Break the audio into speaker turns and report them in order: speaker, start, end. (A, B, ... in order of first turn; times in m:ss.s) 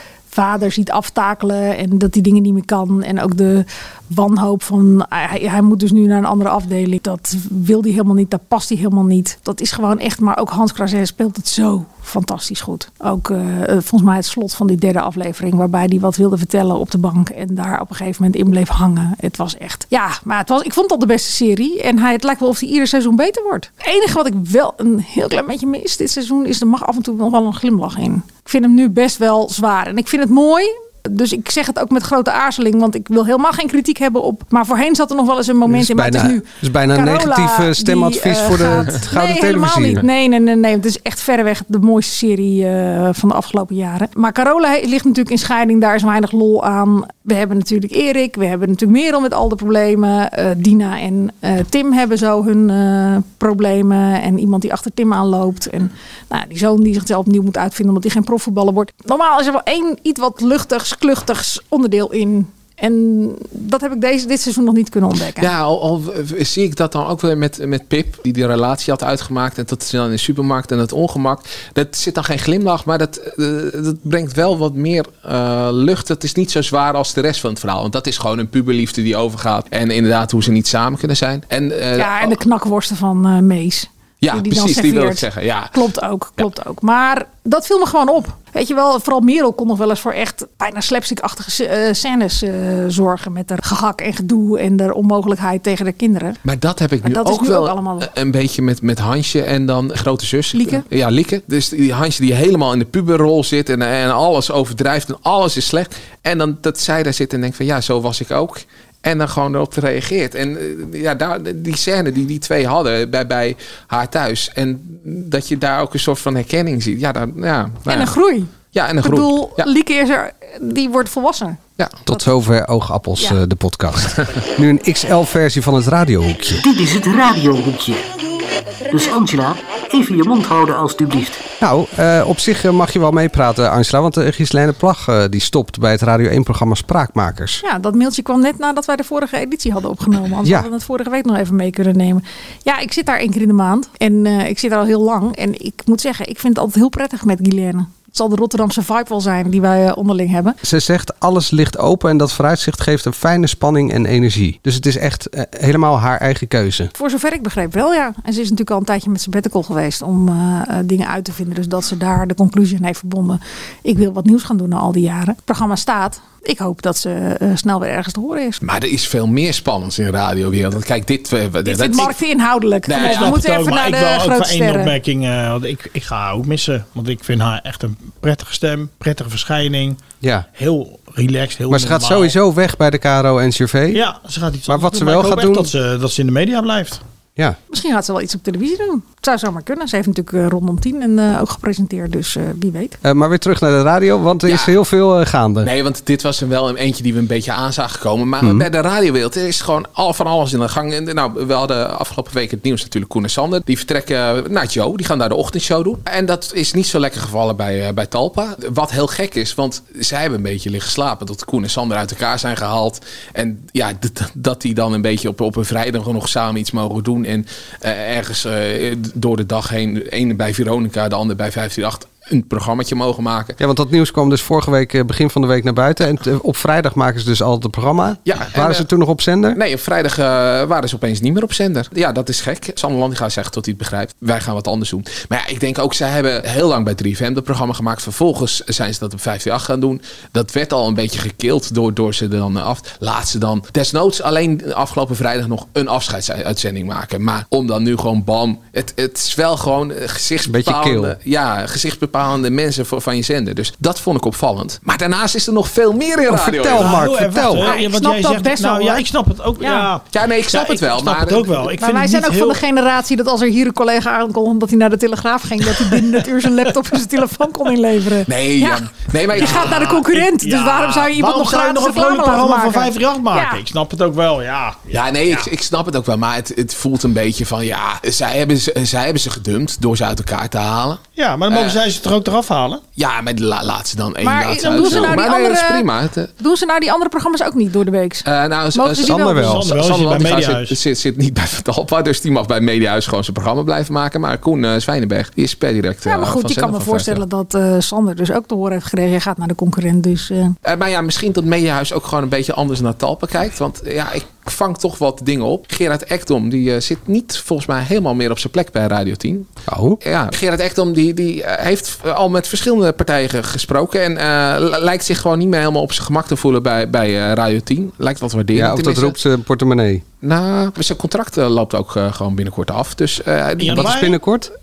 0:00.3-1:05.5 A
0:35.7-0:40.1 B
1:05.4-1:22.4 C
1:22.0-1:36.4 A
1:24.2-1:25.8 C
1:36.4-1:58.1 C
1:37.0-1:38.1 A
1:40.5-1:40.8 A
1:57.9-2:02.3 A
1:58.7-1:59.7 C
2:02.1-2:06.6 B
2:06.6-2:08.1 D
2:08.9-2:11.4 D
2:11.6-2:17.6 B
2:17.6-2:30.6 A
2:30.6-2:36.9 B
2:36.9-2:48.6 A
2:48.6-2:52.2 C
2:51.6-2:55.0 A
2:52.9-2:53.4 C
2:53.0-3:00.0 E
3:00.5-3:02.4 E
3:01.7-3:04.0 B
3:03.9-3:07.0 E
3:04.7-3:05.7 B
3:07.7-3:13.0 A
3:13.0-3:15.7 B
3:14.5-3:14.8 C
3:15.6-3:43.6 C
3:18.4-3:18.7 B
3:43.6-3:49.6 B
3:48.3-3:48.9 C
3:49.5-4:17.0 C
4:10.4-4:11.2 B
4:16.3-4:17.7 B
4:16.7-4:22.6 E
4:17.6-4:19.0 A
4:19.6-4:19.9 A
4:20.1-4:21.6 C
4:21.8-4:33.6 A
4:28.3-4:30.1 C
4:29.4-4:35.5 E
4:34.9-4:41.8 C
4:41.2-4:42.8 E
4:43.0-4:46.3 C
4:44.2-4:45.9 A
4:44.6-4:45.2 E
4:46.4-4:49.6 A
4:48.3-4:57.2 C
4:49.0-4:49.6 B
4:49.3-4:50.8 E
4:56.1-5:00.6 A
5:00.6-5:09.5 C
5:09.7-5:10.0 B
5:10.0-5:19.2 C
5:18.5-5:20.0 B
5:20.2-5:24.0 C
5:23.6-5:24.2 E
5:23.7-5:24.5 B